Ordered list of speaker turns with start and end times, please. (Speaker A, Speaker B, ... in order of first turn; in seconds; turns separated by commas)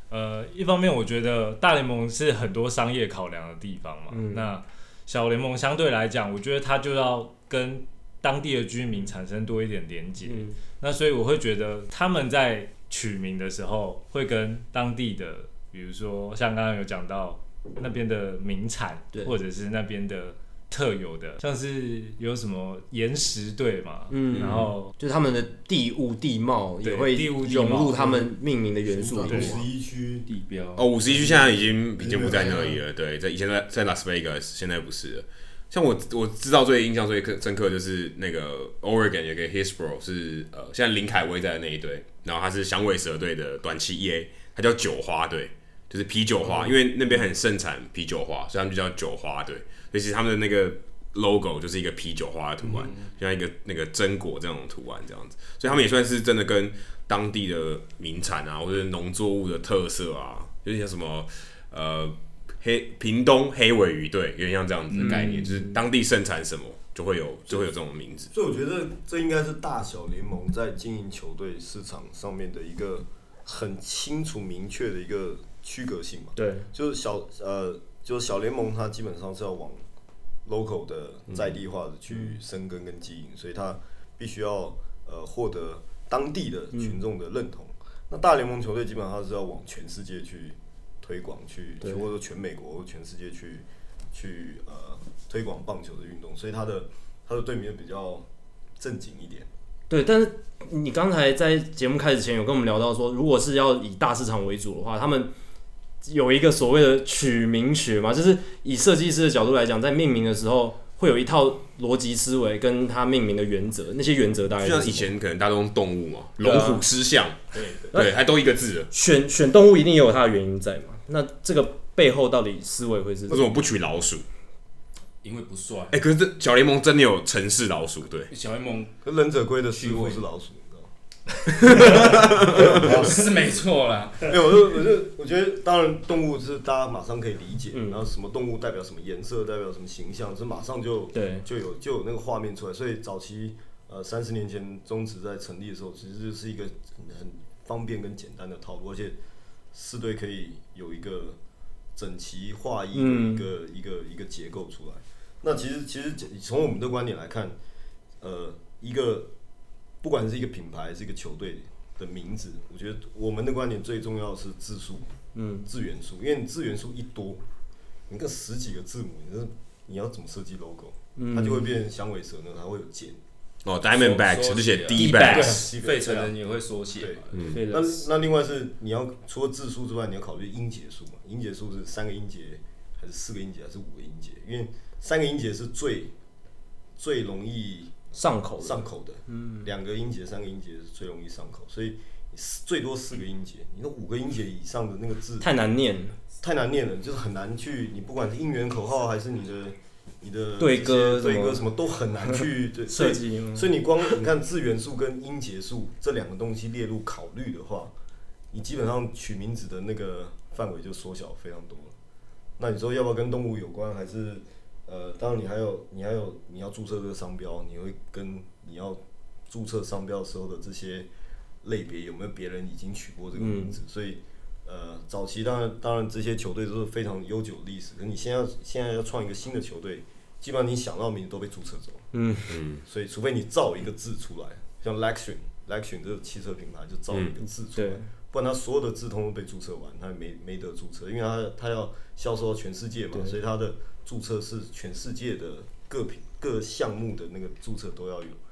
Speaker A: 0.1-24.9, Speaker B: 4.1-4.5, Speaker B: 10.2-10.6, Speaker B: 24.1-29.6, Speaker A: 26.8-28.3, Speaker C: 29.2-30.3, Speaker D: 30.3-31.4, Speaker E: 30.8-68.3, Speaker C: 32.0-32.8, Speaker B: 65.0-65.7, Speaker C: 68.3-79.8, Speaker B: 76.4-76.7, Speaker C: 80.5-98.3, Speaker C: 98.8-99.5, Speaker B: 99.9-105.3, Speaker B: 106.0-115.1, Speaker E: 114.6-118.9, Speaker B: 116.4-116.8, Speaker D: 117.5-117.9, Speaker B: 118.9-123.5, Speaker E: 123.3-124.2, Speaker D: 125.2-126.0, Speaker E: 125.9-128.3, Speaker D: 128.3-128.9, Speaker C: 129.0-130.9, Speaker D: 129.7-130.2, Speaker E: 131.7-132.7, Speaker D: 132.0-134.3, Speaker C: 132.5-133.2, Speaker C: 134.2-149.2, Speaker B: 137.7-138.0, Speaker B: 141.1-141.4, Speaker C: 149.7-151.4, Speaker C: 151.9-157.6, Speaker B: 152.9-153.5, Speaker C: 158.2-159.3, Speaker C: 160.0-165.1, Speaker B: 165.3-165.7, Speaker C: 165.7-167.4, Speaker C: 168.1-173.2, Speaker B: 171.2-171.7, Speaker E: 173.6-175.7, Speaker D: 173.9-178.0, Speaker B: 174.9-175.7, Speaker C: 175.3-176.3, Speaker C: 177.0-186.1, Speaker B: 177.5-177.9, Speaker C: 187.0-187.9, Speaker B: 188.1-189.7, Speaker C: 188.6-195.5, Speaker B: 195.4-196.2, Speaker C: 196.4-207.9, Speaker B: 200.6-201.6, Speaker B: 202.9-203.7, Speaker C: 208.5-211.9, Speaker C: 212.6-221.1, Speaker C: 221.6-232.1, Speaker B: 223.4-223.8, Speaker B: 232.1-232.6, Speaker E: 232.5-232.8, Speaker C: 232.8-248.4, Speaker B: 237.8-238.1